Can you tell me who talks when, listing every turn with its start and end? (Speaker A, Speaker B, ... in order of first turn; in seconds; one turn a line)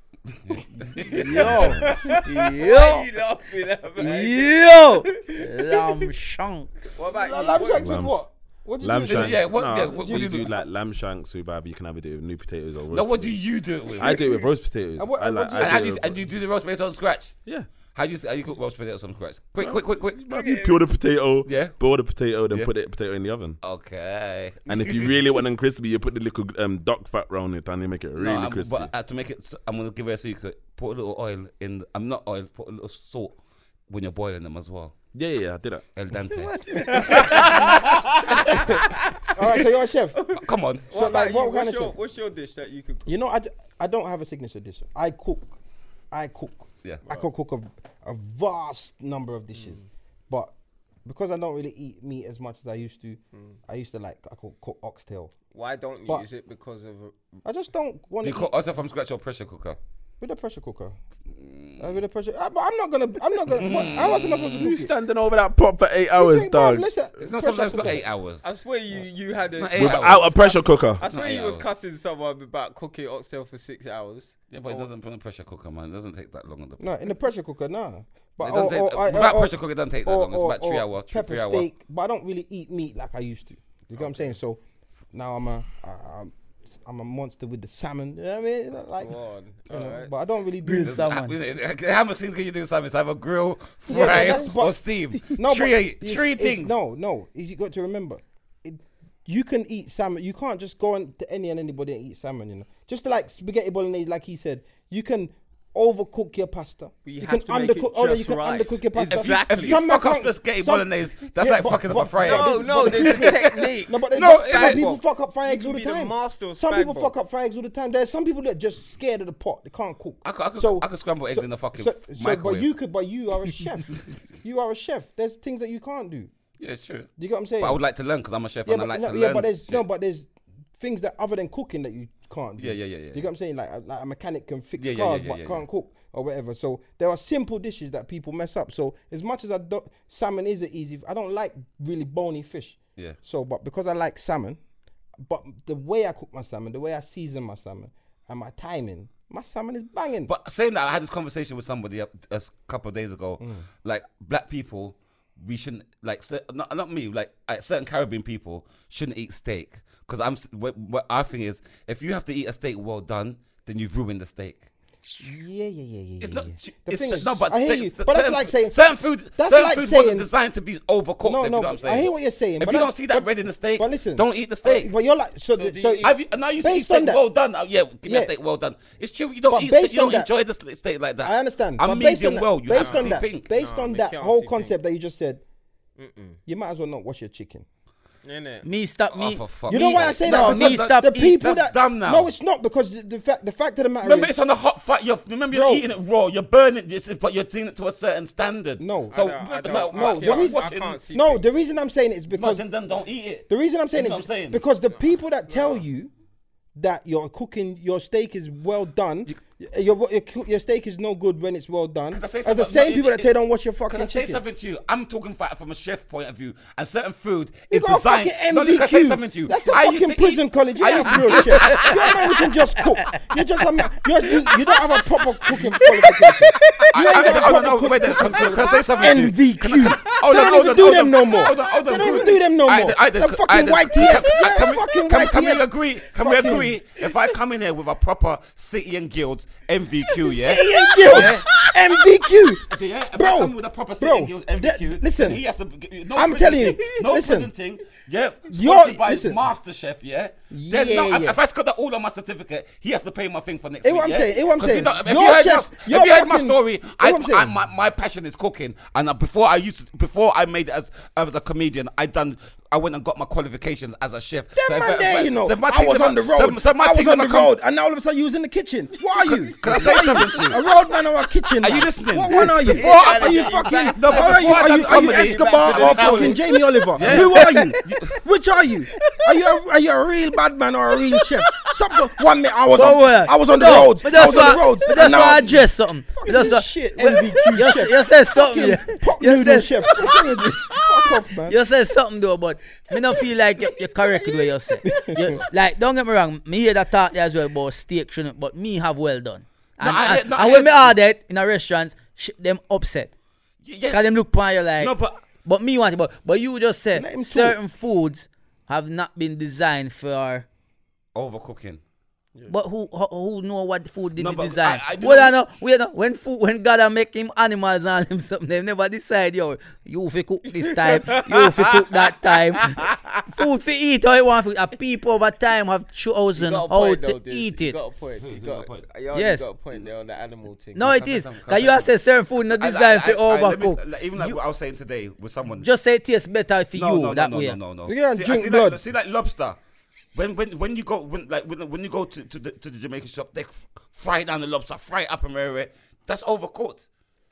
Speaker A: 0.5-1.5
Speaker B: 1.0-3.1
Speaker C: 1.0-6.0
Speaker D: 1.1-2.2
Speaker B: 4.0-7.0
Speaker C: 6.9-8.0
Speaker E: 7.1-10.7
Speaker D: 7.8-8.2
Speaker D: 8.8-13.4
Speaker A: 9.0-10.6
Speaker A: 12.9-14.3
Speaker D: 14.0-16.3
Speaker E: 15.0-16.0
Speaker A: 15.6-17.4
Speaker A: 17.9-20.4
Speaker D: 19.6-23.6
Speaker C: 20.3-20.8
Speaker A: 21.4-21.8
Speaker A: 23.6-25.2
Speaker D: 24.7-28.9
Speaker A: 28.2-33.4
Speaker A: 33.9-35.0
Speaker D: 35.1-35.9
Speaker A: 36.0-38.9
Speaker B: 36.4-37.4
Speaker C: 36.8-39.1
Speaker E: 39.3-40.2
Speaker C: 40.1-43.1
Speaker A: 40.4-40.9
Speaker E: 40.9-42.0
Speaker E: 43.1-45.6
Speaker E: 46.1-50.5
Speaker C: 49.6-49.9
Speaker E: 51.0-55.3
Speaker C: 53.3-53.6
Speaker C: 55.5-57.4
Speaker E: 57.4-58.5
Speaker A: 58.2-59.8
Speaker E: 60.2-61.0
Speaker A: 61.3-61.8
Speaker E: 61.8-64.9
Speaker A: 63.5-64.8
Speaker D: 64.5-66.9
Speaker E: 66.1-68.0
Speaker A: 67.2-68.5
Speaker C: 68.4-74.9
Speaker A: 69.6-71.7
Speaker D: 69.8-71.0
Speaker A: 74.5-77.0
Speaker E: 76.8-79.5
Speaker A: 78.4-81.7
Speaker E: 80.0-84.6
Speaker E: 85.1-89.2
Speaker C: 89.0-90.1
Speaker E: 89.7-91.1
Speaker B: 90.6-91.4
Speaker A: 90.8-96.8
Speaker E: 93.9-126.3
Speaker C: 107.0-109.9
Speaker A: 109.2-114.8
Speaker C: 112.2-117.1
Speaker A: 120.2-122.7
Speaker A: 126.6-129.8
Speaker E: 127.2-127.8
Speaker E: 128.7-144.6
Speaker A: 132.6-133.3
Speaker A: 134.8-135.6
Speaker E: 145.2-150.3
Speaker A: 150.2-164.6
Speaker E: 153.4-153.7
Speaker E: 165.2-168.8
Speaker A: 166.2-174.9
Speaker E: 169.4-170.3
Speaker E: 171.2-177.2
Speaker A: 175.6-183.5
Speaker C: 175.8-176.1
Speaker E: 178.1-178.3
Speaker E: 179.5-180.3
Speaker E: 181.2-185.4
Speaker C: 182.7-184.8
Speaker C: 186.0-186.4
Speaker E: 186.5-187.7
Speaker C: 188.2-188.7
Speaker B: 188.6-191.4
Speaker A: 189.1-192.3
Speaker E: 189.7-194.3
Speaker A: 194.0-201.0
Speaker E: 195.5-195.8
Speaker E: 198.8-202.6
Speaker C: 199.1-201.4
Speaker A: 202.3-204.6
Speaker E: 203.5-206.1
Speaker C: 204.9-205.8
Speaker E: 206.8-214.4
Speaker A: 212.1-222.5
Speaker E: 217.7-235.7
Speaker B: 225.5-227.3
Speaker A: 226.9-241.6
Speaker C: 228.4-229.3
Speaker E: 236.2-236.8
Speaker E: 240.2-245.4
Speaker A: 242.7-267.5
Speaker E: 246.2-247.5
Speaker E: 248.5-249.4
Speaker E: 250.5-251.4
Speaker E: 253.8-257.6
Speaker E: 264.6-291.6
Speaker A: 269.2-270.6
Speaker A: 271.6-276.4
Speaker C: 272.4-276.6
Speaker A: 276.9-278.2
Speaker B: 277.0-277.9
Speaker B: 278.9-279.4
Speaker B: 282.7-289.9
Speaker C: 289.9-291.1
Speaker B: 291.5-303.1
Speaker C: 293.8-295.4
Speaker E: 294.9-295.2
Speaker A: 299.8-300.9
Speaker A: 303.6-304.1
Speaker B: 303.9-304.9
Speaker A: 304.8-305.2
Speaker B: 305.4-310.5
Speaker E: 306.9-307.6
Speaker A: 311.1-311.8
Speaker B: 312.5-327.8
Speaker A: 314.2-315.4
Speaker C: 320.6-323.4
Speaker C: 326.4-331.0
Speaker A: 328.2-328.9
Speaker B: 329.1-329.5
Speaker B: 330.7-334.4
Speaker A: 330.8-331.9
Speaker A: 332.5-335.7
Speaker B: 335.6-337.6
Speaker A: 336.7-339.6
Speaker E: 337.9-338.8
Speaker A: 340.1-346.8